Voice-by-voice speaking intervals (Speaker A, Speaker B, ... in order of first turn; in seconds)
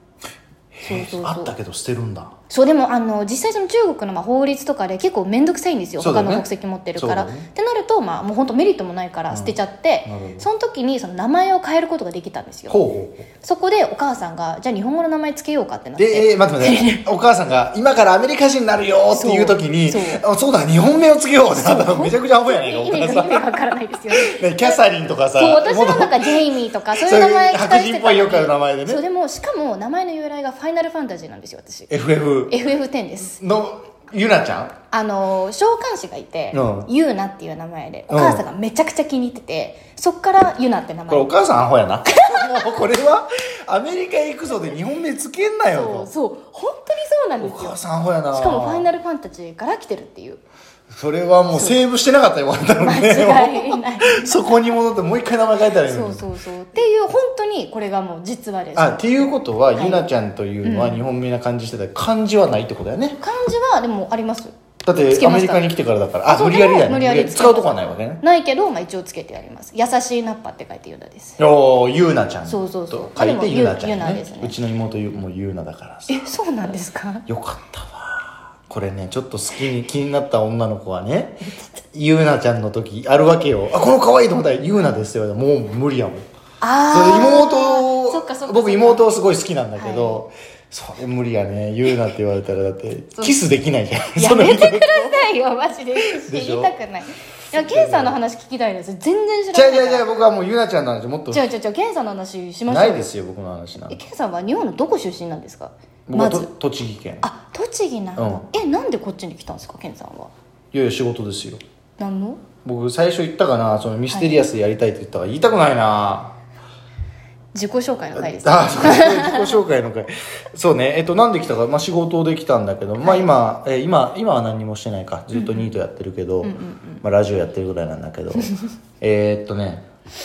Speaker A: 0.7-2.3, 6.0-7.5, 9.3-10.4, 12.7-13.3, 16.0-23.6, 24.1-29.0, 31.9-32.6, 33.4-34.7, 36.5-36.9, 38.1-38.4, 41.1-46.1, 47.4-48.9, 50.9-56.2, 58.8-63.2, 64.8-68.2, 71.4-76.2, 77.3-86.2, 86.9-95.2, 96.0-96.7, 97.5-98.2, 99.5-101.4, 102.7-104.0, 106.1-107.2, 108.2-108.5, 110.7-111.6, 112.6-116.3, 118.1-129.8
Speaker B: 0.8-1.5, 2.5-12.8, 13.4-17.0, 19.1-20.2, 21.5-24.8, 25.4-31.9, 32.5-33.4, 34.9-41.3, 42.1-42.7, 45.7-47.8, 48.3-50.4, 52.8-54.4, 55.9-60.1, 60.6-61.0, 63.2-64.5, 65.1-65.7, 66.3-71.4, 72.5-74.5, 76.1-77.2, 86.6-89.1, 89.8-90.2, 94.2-100.0, 101.3-103.1, 103.9-106.5, 107.2-110.3, 112.0-112.4, 114.1-114.4, 117.5-119.6, 123.0-123.3, 125.3-125.7, 126.4-127.0